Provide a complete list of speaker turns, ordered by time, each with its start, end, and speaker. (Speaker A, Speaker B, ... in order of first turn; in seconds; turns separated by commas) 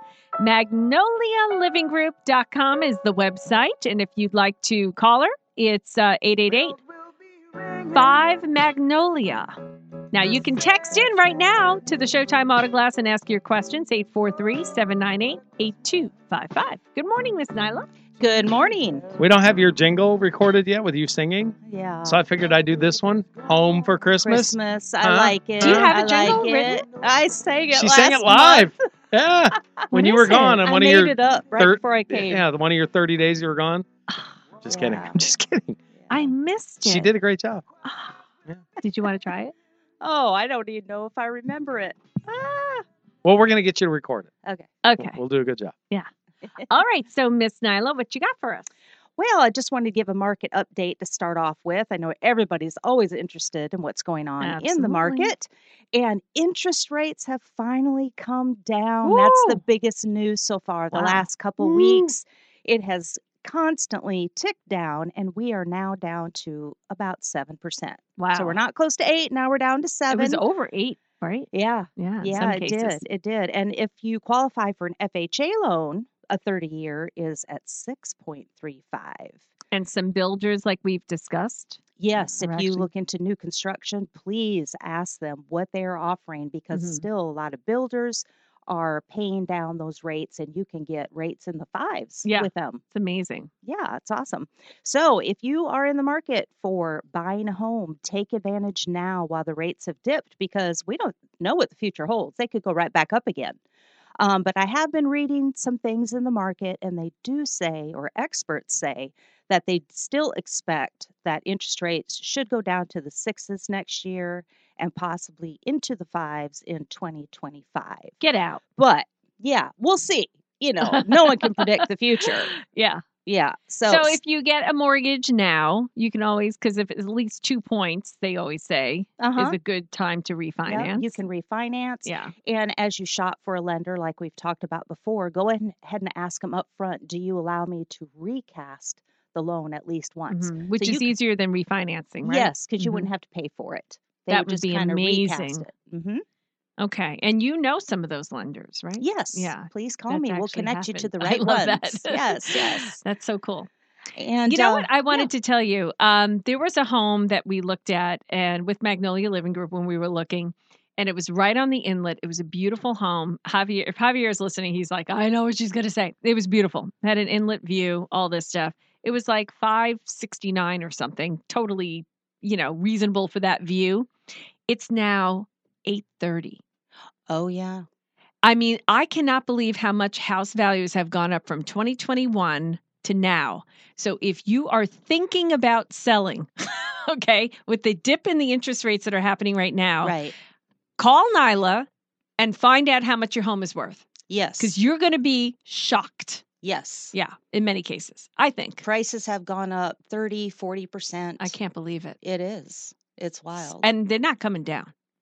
Speaker A: 0.4-6.8, Speaker B: 7.6-7.9, Speaker A: 7.9-9.5, Speaker A: 10.1-17.9, Speaker B: 18.2-19.1, Speaker C: 19.2-25.9, Speaker B: 21.6-22.2, Speaker B: 24.2-28.7, Speaker A: 25.6-26.8, Speaker C: 27.7-33.9, Speaker B: 29.9-32.4, Speaker C: 34.6-35.8, Speaker B: 34.7-35.2, Speaker A: 36.1-37.1, Speaker C: 36.8-37.6, Speaker A: 37.8-38.2, Speaker A: 38.8-39.5, Speaker B: 40.0-42.8, Speaker C: 43.2-44.3, Speaker B: 44.4-44.8, Speaker A: 44.8-45.2, Speaker C: 45.0-45.7, Speaker A: 46.6-48.7, Speaker B: 49.2-70.4, Speaker A: 54.4-55.3, Speaker A: 59.0-59.6, Speaker A: 60.9-62.1, Speaker A: 68.2-68.6, Speaker A: 70.1-73.0, Speaker B: 71.5-79.5, Speaker A: 79.7-82.9, Speaker B: 82.0-92.8, Speaker A: 86.7-87.1, Speaker A: 92.2-93.5, Speaker B: 93.6-103.6, Speaker B: 104.2-118.2, Speaker A: 118.2-118.6, Speaker B: 118.8-122.5, Speaker A: 120.8-123.0, Speaker B: 123.3-124.2, Speaker A: 123.9-131.2, Speaker B: 129.2-129.6, Speaker B: 130.7-141.1, Speaker A: 132.1-132.3, Speaker A: 140.3-143.1, Speaker B: 142.2-146.2, Speaker A: 144.3-145.7, Speaker A: 146.8-153.7, Speaker B: 149.0-153.0, Speaker B: 154.2-155.3, Speaker A: 154.5-174.1, Speaker A: 174.7-176.6, Speaker B: 177.3-177.8, Speaker A: 178.4-190.2, Speaker B: 190.0-190.3, Speaker A: 191.0-194.0, Speaker B: 194.3-194.7, Speaker A: 194.6-196.4, Speaker B: 196.6-197.2, Speaker A: 197.1-198.8, Speaker B: 198.8-201.6, Speaker A: 201.4-202.2, Speaker B: 202.2-203.9, Speaker A: 203.6-204.9